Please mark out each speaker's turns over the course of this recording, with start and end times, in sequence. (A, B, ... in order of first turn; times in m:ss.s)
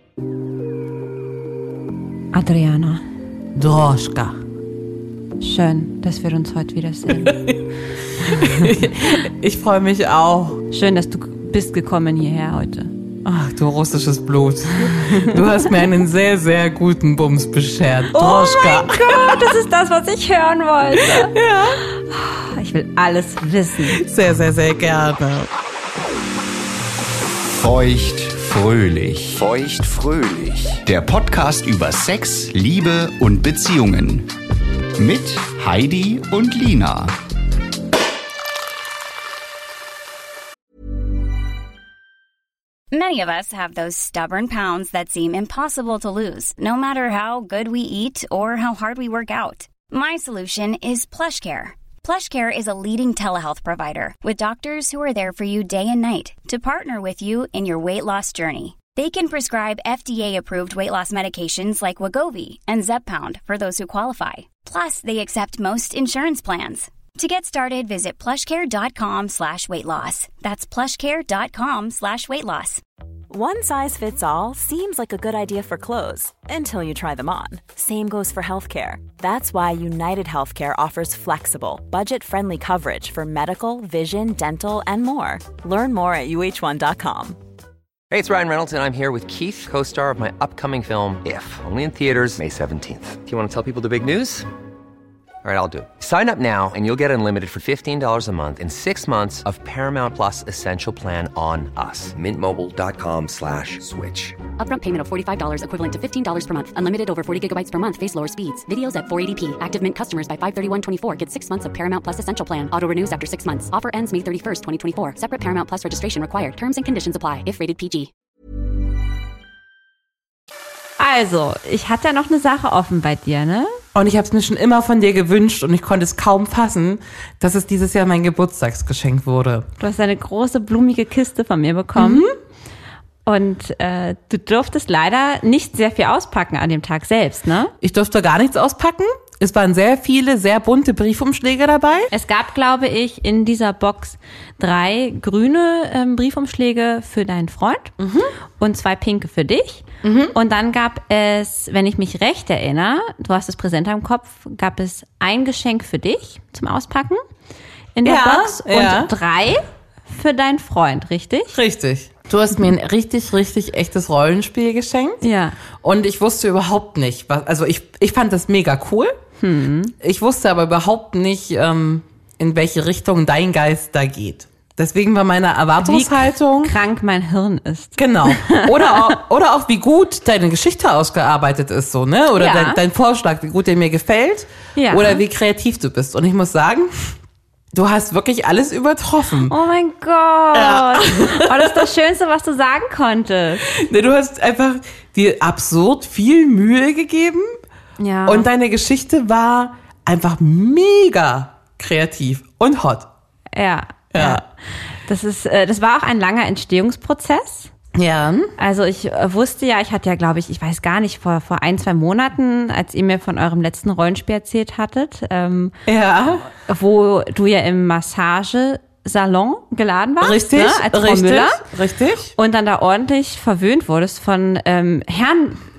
0:02.3-0:03.0 A
0:03.6-0:04.4 B
0:05.4-0:07.4 A
0:07.1-0:07.6 B
0:08.2-0:10.6 B
0:10.7-0:12.9 A
0:13.2-0:19.5 B
0:18.1-0:24.0 A
0:21.0-0:21.8 B
0:23.9-0:25.5 B
0:27.5-0:34.3 C
0:35.0-0:37.1 C
0:42.9-1:12.8 D
1:13.3-1:27.4 E
1:28.1-1:34.5 F
1:35.4-1:44.4 F
1:44.6-1:58.1 G
2:01.0-2:03.8 A
2:03.9-2:09.7 B
2:09.8-2:12.3 A
2:12.0-2:12.3 B
2:13.3-2:17.7 A
2:17.8-2:22.1 B
2:22.1-2:28.0 A
2:28.0-2:28.3 B
2:28.6-2:37.2 A
2:30.0-2:30.4 B
2:38.0-2:41.5 A
2:38.0-2:39.1 B
2:41.5-2:45.2 B
2:45.2-2:45.6 A
2:45.8-2:49.2 B
2:49.4-2:49.9 A
2:50.0-2:56.8 B
2:55.8-2:59.1 A
2:58.0-3:07.2 B
3:02.4-3:02.8 A
3:04.8-3:05.2 A
3:07.7-3:09.5 B
3:09.5-3:13.6 A
3:10.5-3:11.9 B
3:13.7-3:17.5 B
3:18.0-3:18.5 A
3:18.3-3:23.1 B
3:23.5-3:24.4 A
3:24.1-3:24.4 B
3:25.1-3:27.7 A
3:28.0-3:28.5 B
3:28.6-3:35.7 A
3:35.9-3:36.5 B
3:36.7-3:41.6 A
3:40.2-3:42.3 B
3:42.4-3:45.6 A